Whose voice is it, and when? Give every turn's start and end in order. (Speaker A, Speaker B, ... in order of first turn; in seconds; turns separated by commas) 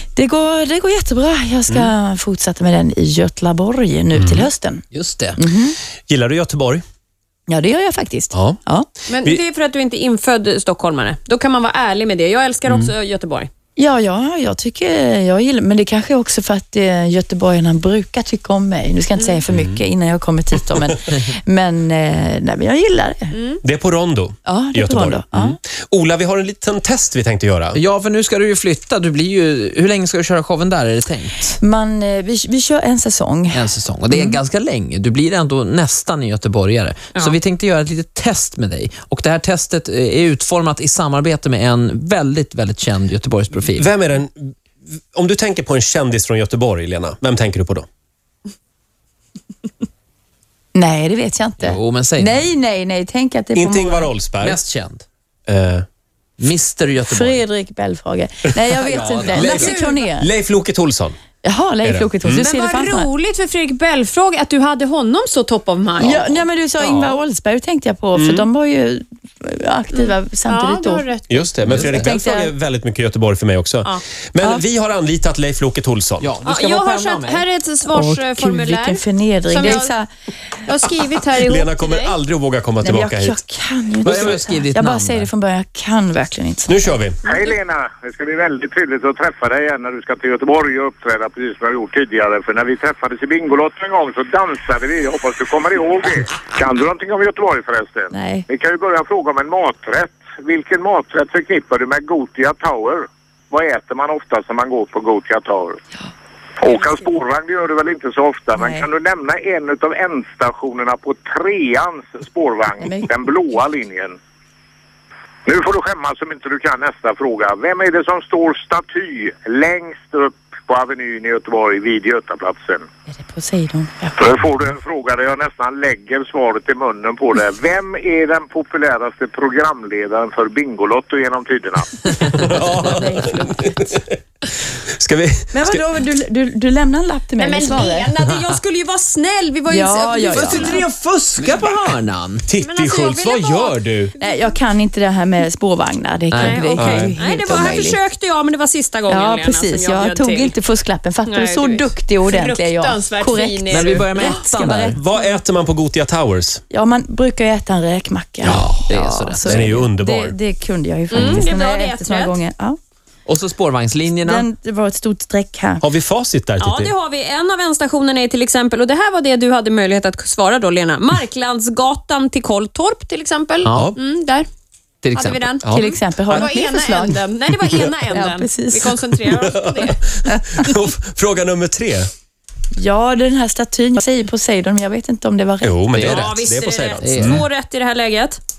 Speaker A: 0.2-4.8, Speaker B: 4.2-4.5, Speaker C: 4.9-5.4, Speaker A: 5.4-5.8, Speaker B: 6.1-6.8, Speaker A: 7.5-8.9, Speaker B: 8.3-8.6, Speaker D: 9.1-13.5, Speaker A: 13.8-23.4, Speaker B: 19.5-19.8, Speaker D: 23.3-23.6, Speaker B: 23.6-27.8, Speaker A: 24.5-25.5, Speaker C: 27.8-31.6, Speaker A: 31.6-34.4, Speaker C: 33.5-43.9, Speaker B: 43.7-47.9, Speaker A: 50.7-54.1, Speaker C: 51.6-52.5, Speaker B: 53.6-54.6, Speaker C: 54.4-55.0, Speaker B: 55.5-55.9, Speaker C: 56.4-57.4, Speaker A: 57.0-60.3, Speaker C: 58.8-59.7, Speaker B: 59.3-61.2, Speaker D: 59.4-60.0, Speaker A: 61.4-63.1, Speaker B: 61.8-62.5, Speaker D: 62.3-66.3, Speaker A: 66.0-71.0, Speaker B: 66.8-67.2, Speaker B: 68.2-68.5, Speaker D: 70.0-71.5, Speaker B: 71.3-76.3, Speaker C: 71.7-72.1, Speaker A: 71.8-72.5, Speaker C: 76.2-77.5, Speaker D: 76.4-79.9, Speaker A: 77.9-80.1, Speaker D: 80.7-82.1, Speaker B: 81.4-83.4, Speaker A: 82.8-87.0, Speaker C: 84.0-85.3, Speaker B: 86.7-87.2, Speaker E: 87.2-105.8, Speaker A: 98.1-98.5, Speaker E: 106.6-114.2, Speaker A: 106.7-107.0, Speaker A: 108.6-108.9, Speaker A: 112.8-113.6, Speaker E: 115.5-122.8, Speaker A: 123.1-124.3, Speaker E: 124.2-132.1, Speaker B: 132.3-133.8, Speaker A: 132.5-134.0, Speaker B: 134.9-135.8, Speaker A: 135.5-138.1, Speaker D: 137.4-140.9, Speaker A: 139.7-140.8, Speaker C: 140.3-142.5, Speaker B: 142.5-144.1, Speaker D: 142.6-144.5, Speaker A: 144.2-148.0, Speaker C: 146.3-146.7, Speaker D: 146.4-150.6, Speaker B: 146.8-147.2, Speaker A: 149.1-155.3, Speaker D: 151.3-154.3, Speaker C: 153.7-155.0, Speaker B: 154.9-156.6, Speaker A: 156.7-162.8, Speaker C: 158.4-159.7, Speaker B: 159.4-160.4, Speaker D: 161.1-162.4, Speaker C: 163.3-164.5, Speaker A: 164.2-165.8, Speaker B: 165.8-166.9, Speaker D: 166.6-174.5, Speaker C: 173.7-173.9, Speaker C: 175.0-175.4, Speaker D: 175.1-175.7, Speaker B: 175.6-176.5, Speaker A: 175.7-177.2, Speaker D: 176.3-180.0, Speaker A: 178.1-179.0, Speaker B: 179.4-182.1, Speaker A: 182.8-185.8, Speaker B: 185.6-187.4, Speaker C: 185.9-186.4, Speaker D: 186.0-188.4, Speaker C: 187.0-187.4